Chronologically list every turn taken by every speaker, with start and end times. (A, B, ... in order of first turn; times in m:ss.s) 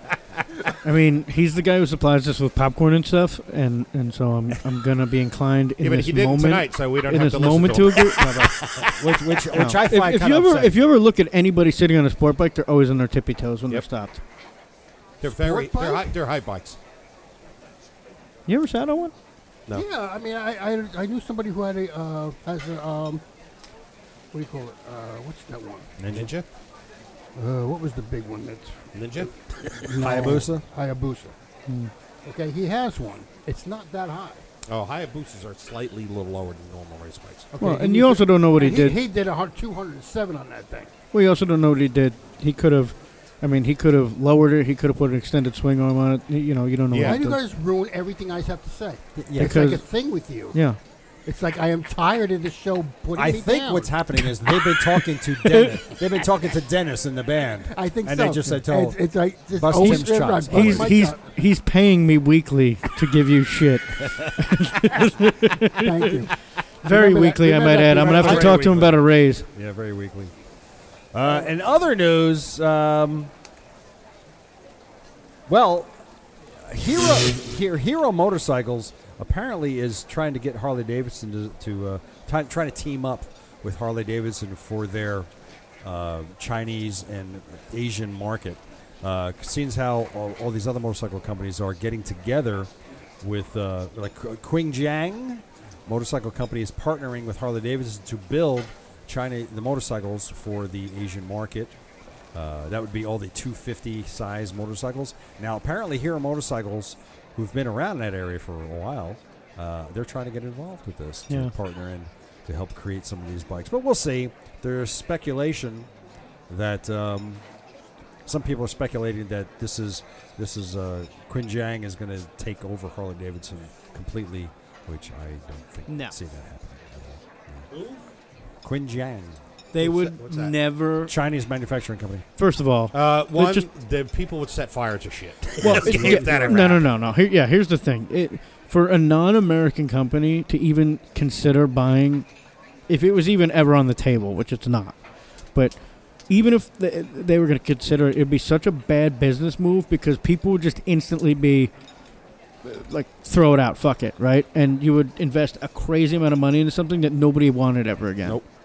0:00.8-0:08.5 A
0:05.8-0:09.0 B
0:08.9-0:10.8 C
0:09.5-0:14.2 A
0:15.2-0:16.8 B
0:15.3-0:16.1 D
0:18.5-0:19.1 A
0:19.7-0:23.2 D
0:24.3-0:25.9 D
0:26.0-0:26.3 C
0:26.1-0:26.5 B
0:27.4-0:31.4 D
0:28.9-0:29.3 B
0:30.0-0:30.6 C
0:32.2-0:34.4 D
0:34.7-0:37.5 B
0:37.5-0:40.9 D
0:37.6-0:39.0 A
0:41.1-0:47.4 A
0:46.9-0:47.2 B
0:47.0-0:50.6 D
0:49.2-0:49.6 C
0:49.4-0:49.8 A
0:50.5-0:50.8 A
0:51.2-0:53.9 D
0:53.1-0:59.0 C
0:55.4-0:55.8 A
0:57.8-1:01.2 D
0:59.5-1:01.0 C
0:59.8-1:06.2 A
1:05.8-1:06.3 D
1:06.8-1:09.5 A
1:06.8-1:08.7 D
1:07.9-1:10.3 C
1:11.1-1:13.3 C
1:15.5-1:15.9 C
1:16.6-1:25.3 C
1:25.8-1:32.7 C
1:33.2-1:41.7 C
1:42.3-1:55.9 C
1:56.5-1:57.4 C
1:58.3-2:07.7 C
2:05.9-2:06.1 A
2:07.7-2:08.0 B
2:08.6-2:09.4 C
2:09.7-2:11.1 A
2:09.8-2:10.6 B
2:11.1-2:12.2 C
2:12.4-2:13.7 A
2:12.9-2:16.9 B
2:15.6-2:16.7 C
2:15.6-2:22.3 A
2:22.9-2:25.0 A
2:25.5-2:31.7 A
2:32.6-2:38.4 A